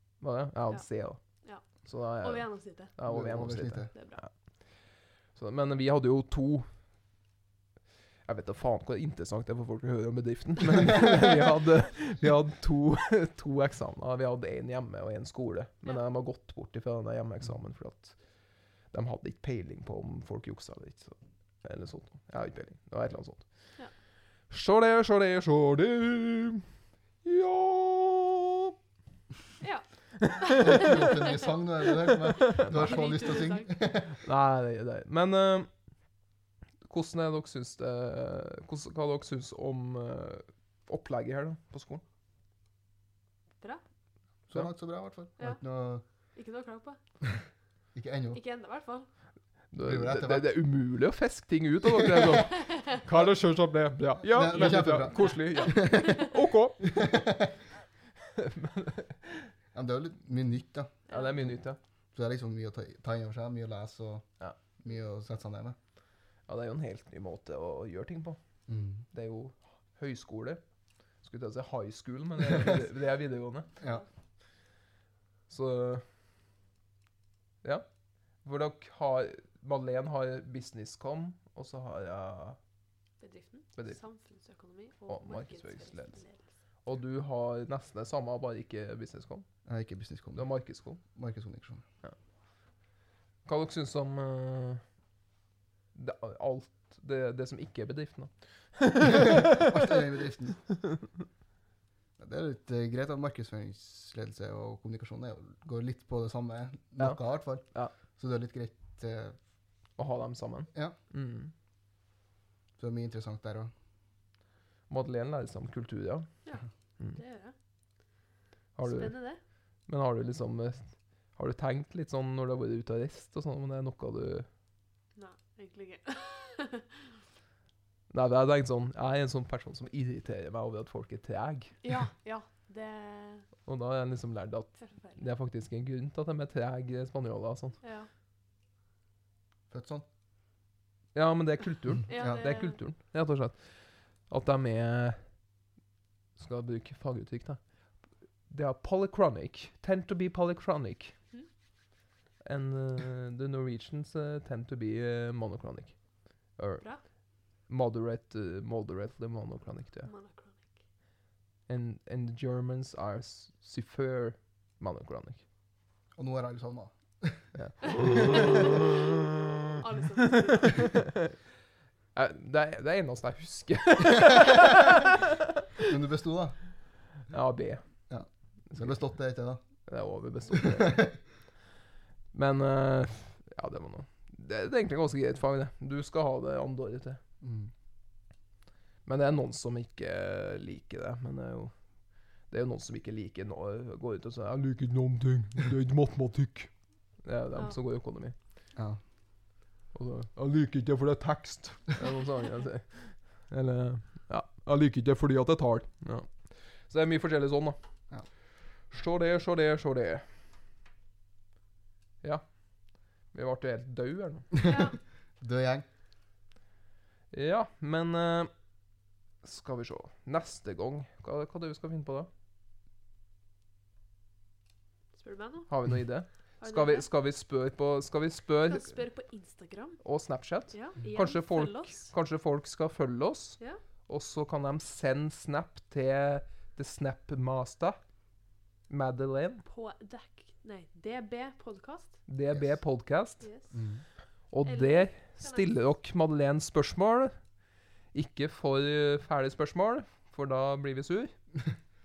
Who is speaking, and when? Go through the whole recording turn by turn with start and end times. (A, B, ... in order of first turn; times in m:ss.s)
0:00.2-0:01.2 A
0:01.4-0:02.9 B
0:01.8-0:04.3 A
0:03.1-0:03.9 C
0:03.9-0:04.2 B
0:05.4-0:06.7 A
0:08.2-0:18.2 A
0:18.9-0:23.4 A
0:24.5-0:26.6 A
0:27.2-0:28.7 A
0:29.6-0:33.7 B
0:30.2-0:31.0 A
0:30.6-0:34.1 C
0:32.4-0:33.3 A
0:34.0-0:35.7 A
0:36.8-0:42.0 A
0:44.5-0:46.0 C
0:46.4-0:47.0 B
0:47.9-0:48.4 C
0:48.3-0:49.1 B
0:49.7-0:56.9 A
0:49.9-0:50.6 C
0:52.0-0:52.3 C
0:52.6-0:52.9 B
0:54.2-0:56.3 C
0:55.2-0:56.3 B
0:56.8-0:57.5 C
0:58.4-0:59.5 A
0:59.7-1:01.0 C
1:01.1-1:01.5 B
1:01.1-1:01.8 A
1:02.1-1:04.2 C
1:04.8-1:05.8 C
1:06.5-1:08.4 A
1:08.7-1:09.0 C
1:09.1-1:10.6 A
1:11.2-1:13.7 A
1:13.8-1:14.0 C
1:15.5-1:16.0 A
1:18.4-1:22.6 A
1:23.2-1:26.4 B
1:25.1-1:26.2 A
1:26.8-1:29.4 A
1:29.6-1:30.5 C
1:30.4-1:31.0 A
1:31.0-1:31.8 C
1:33.4-1:34.8 A
1:35.9-1:39.9 A
1:39.0-1:40.6 C
1:40.8-1:41.1 A
1:42.2-1:49.4 C
1:47.0-1:47.9 A
1:50.0-1:51.5 A
1:52.8-1:53.7 C
1:54.9-1:56.3 A
1:56.4-1:57.5 B
1:58.8-1:59.1 A
1:58.8-1:59.4 B
1:59.9-2:04.5 A
2:05.2-2:07.1 B
2:08.1-2:11.7 A
2:11.8-2:13.5 B
2:13.6-2:17.8 A
2:14.8-2:15.3 B
2:17.8-2:18.1 B
2:19.7-2:20.1 C
2:21.1-2:23.6 A
2:22.1-2:22.8 B
2:22.2-2:22.4 C
2:24.3-2:25.2 A
2:26.4-2:27.6 A
2:28.5-2:31.2 A
2:32.4-2:36.0 A
2:36.6-2:36.9 A
2:37.7-2:40.1 A
2:40.0-2:40.7 B
2:41.7-2:45.4 A
2:46.2-2:47.5 C
2:47.6-2:49.2 A
2:47.8-2:49.0 B
2:49.8-2:51.1 B
2:50.2-2:51.3 A
2:52.1-2:55.9 A
2:55.9-2:56.6 C
2:57.3-2:57.9 A
2:58.1-2:59.6 C
2:59.9-3:01.1 A
3:00.5-3:01.1 C
3:02.3-3:07.2 A
3:07.4-3:07.7 C
3:09.0-3:11.7 A
3:12.5-3:16.7 A
3:17.2-3:18.4 A
3:18.7-3:19.0 C
3:19.9-3:27.8 A
3:28.9-3:30.2 A
3:32.2-3:32.5 A
3:33.3-3:34.5 A
3:34.5-3:35.8 C
3:34.6-3:35.0 B
3:37.3-3:38.5 A
3:39.4-3:42.3 A
3:45.2-3:46.0 B
3:45.7-3:48.9 A
3:46.6-3:47.1 B
3:48.7-3:50.0 B
3:50.0-3:58.0 A
3:50.7-3:52.1 B
3:58.9-3:59.6 A
3:59.6-4:02.2 B
4:02.3-4:03.5 A
4:03.4-4:03.8 B
4:03.7-4:04.0 C
4:04.5-4:07.4 A
4:04.6-4:05.7 B
4:08.1-4:11.4 A